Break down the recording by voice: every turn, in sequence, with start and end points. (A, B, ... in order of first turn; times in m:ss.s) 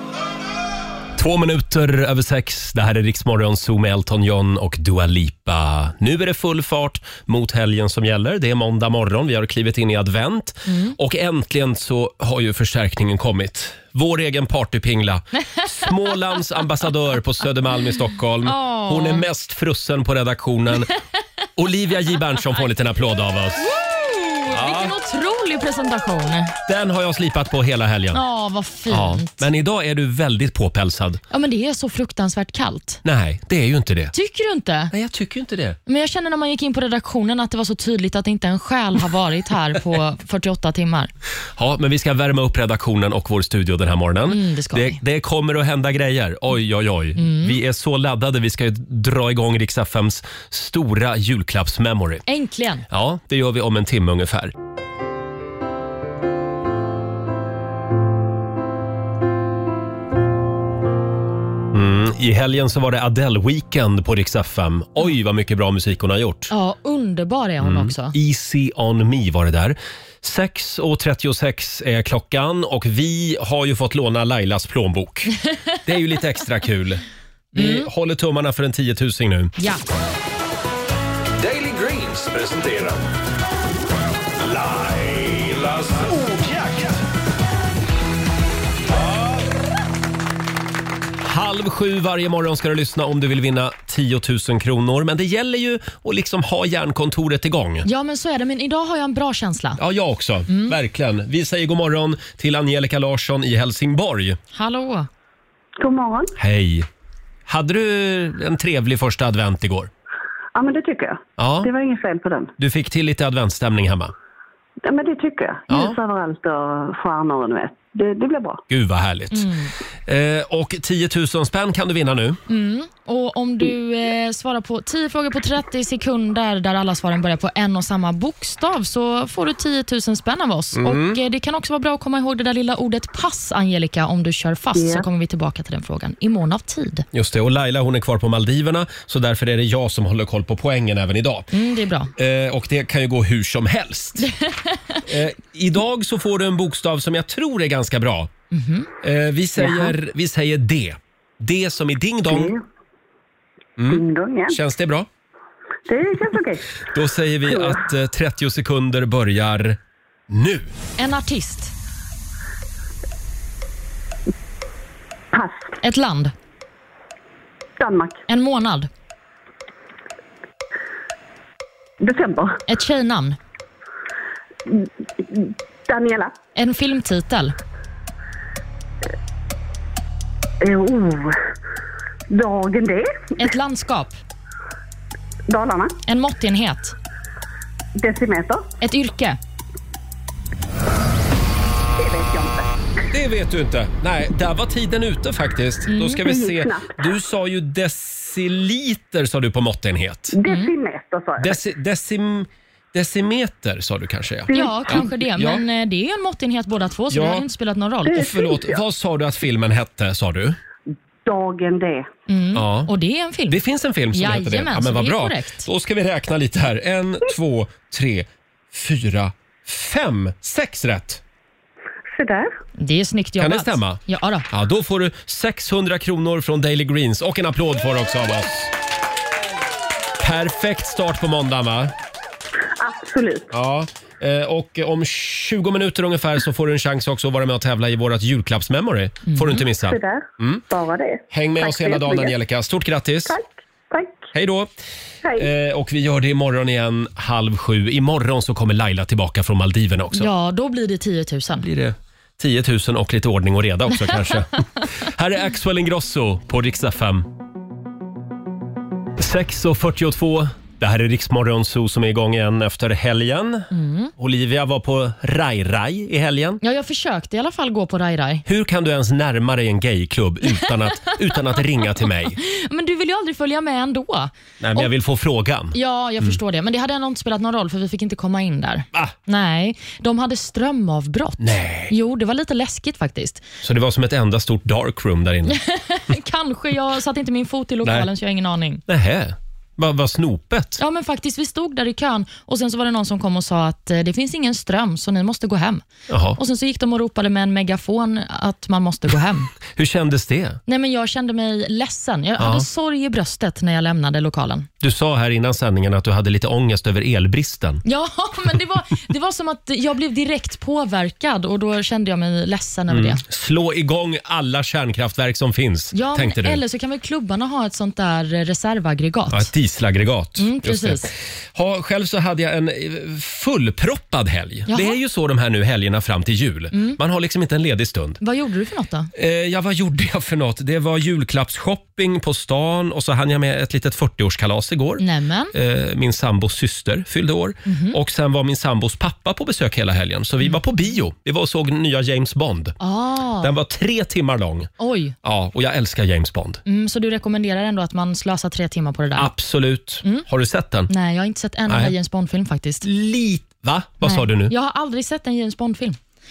0:01.2-0:20.9 A
0:10.7-0:11.0 B
0:18.4-0:19.3 B
0:21.6-0:23.7 A
0:23.6-0:26.5 B
0:24.5-0:25.0 A
0:26.7-0:28.2 A
0:28.1-0:29.4 B
0:28.9-0:31.2 A
0:31.3-0:33.0 B
0:33.0-0:34.1 A
0:34.1-0:34.9 B
0:34.9-0:35.8 A
0:35.9-0:41.1 B
0:41.6-0:52.2 A
0:44.3-0:45.0 B
0:47.2-0:47.6 B
0:52.3-0:52.9 B
0:52.9-0:54.5 A
1:01.7-1:06.5 A
1:06.5-1:08.2 B
1:07.6-1:15.3 A
1:15.8-1:19.5 A
1:17.6-1:17.9 B
1:21.4-1:23.1 C
1:24.4-1:27.0 C
1:28.9-1:29.4 C
1:31.2-1:37.9 A
1:37.8-1:39.8 B
1:39.8-1:44.4 A
1:40.5-1:40.8 B
1:44.5-1:45.1 B
1:45.8-1:46.4 D
1:46.4-1:46.9 A
1:47.5-1:49.9 A
1:50.6-1:52.5 D
1:51.4-1:51.7 A
1:52.6-1:54.1 A
1:54.8-1:58.6 D
1:55.7-1:56.0 A
1:58.7-1:59.5 A
1:59.3-1:59.7 B
2:00.1-2:02.4 A
2:02.5-2:17.0 B
2:10.8-2:11.2 A
2:14.8-2:15.0 D
2:17.1-2:21.5 A
2:21.5-2:22.1 B
2:22.2-2:24.3 A
2:24.2-2:25.0 B
2:25.1-2:28.3 A
2:28.5-2:28.9 B
2:29.0-2:32.6 A
2:29.6-2:29.9 D
2:32.3-2:32.6 D
2:33.8-2:35.1 A
2:33.9-2:34.6 D
2:35.9-2:36.7 D
2:36.9-2:40.7 A
2:37.5-2:37.8 D
2:41.0-2:41.7 B
2:45.3-2:45.8 D
2:45.8-2:46.3 B
2:47.8-2:48.2 D
2:48.3-2:48.9 B
2:52.0-2:52.6 D
2:52.7-2:53.4 B
2:54.7-2:56.4 D
2:56.6-2:57.5 B
3:00.6-3:01.4 D
3:02.3-3:03.4 D
3:03.4-3:04.2 B
3:05.5-3:06.0 D
3:06.1-3:07.0 B
3:08.0-3:08.7 D
3:08.8-3:09.4 B
3:12.0-3:12.7 D
3:13.1-3:20.4 A
3:15.9-3:16.2 B
3:16.2-3:17.0 D
3:20.3-3:21.6 D
3:20.5-3:20.7 B
3:21.4-3:25.6 A
3:24.5-3:25.1 D
3:24.5-3:28.2 B
3:27.1-3:27.4 A
3:28.0-3:28.8 D
3:28.1-3:30.6 A
3:31.2-3:32.1 D
3:32.3-3:33.6 B
3:32.5-3:32.9 A
3:33.5-3:41.2 A
3:34.1-3:35.7 B
3:42.1-3:42.5 D
3:42.8-3:44.5 B
3:43.4-3:48.7 A
3:50.2-3:51.9 A
3:52.8-3:53.5 D
3:53.5-4:00.6 A
3:59.3-3:59.6 B
3:59.7-4:02.3 D
4:01.3-4:03.4 A
4:03.3-4:04.3 D
4:04.3-4:04.7 A
4:05.4-4:10.3 A
4:10.1-4:11.7 B
4:11.6-4:17.3 A
4:14.0-4:14.3 B
4:19.2-4:26.6 A
4:23.7-4:24.1 B
4:26.6-4:28.4 B
4:28.5-4:32.4 A
4:30.6-4:31.1 B
4:32.4-4:34.9 B
4:34.6-4:36.4 A
4:35.7-4:43.4 B
4:41.4-4:41.9 A
4:43.6-4:45.6 A
4:45.5-4:48.8 B
4:47.8-4:48.1 A
4:48.9-4:50.8 A
4:50.8-4:55.8 B
4:56.1-4:56.4 A
4:56.4-4:59.5 B
4:59.8-5:00.6 A
5:00.7-5:04.7 B
5:02.4-5:02.6 A
5:04.8-5:07.8 A
5:07.8-5:13.2 B
5:12.9-5:16.6 A
5:15.9-5:19.5 B
5:19.3-5:28.2 A
5:20.4-5:21.1 B
5:24.7-5:25.0 B
5:26.7-5:27.0 B
5:28.2-5:29.1 B
5:29.2-5:42.8 A
5:35.0-5:35.5 B
5:37.7-5:38.0 B
5:42.8-5:43.5 B
5:43.4-5:44.7 A
5:44.8-5:45.2 B
5:45.2-5:46.6 A
5:46.7-5:49.3 B
5:49.2-5:50.9 A
5:50.9-5:52.9 B
5:51.7-5:51.9 A
5:52.8-5:54.5 A
5:54.0-5:56.0 B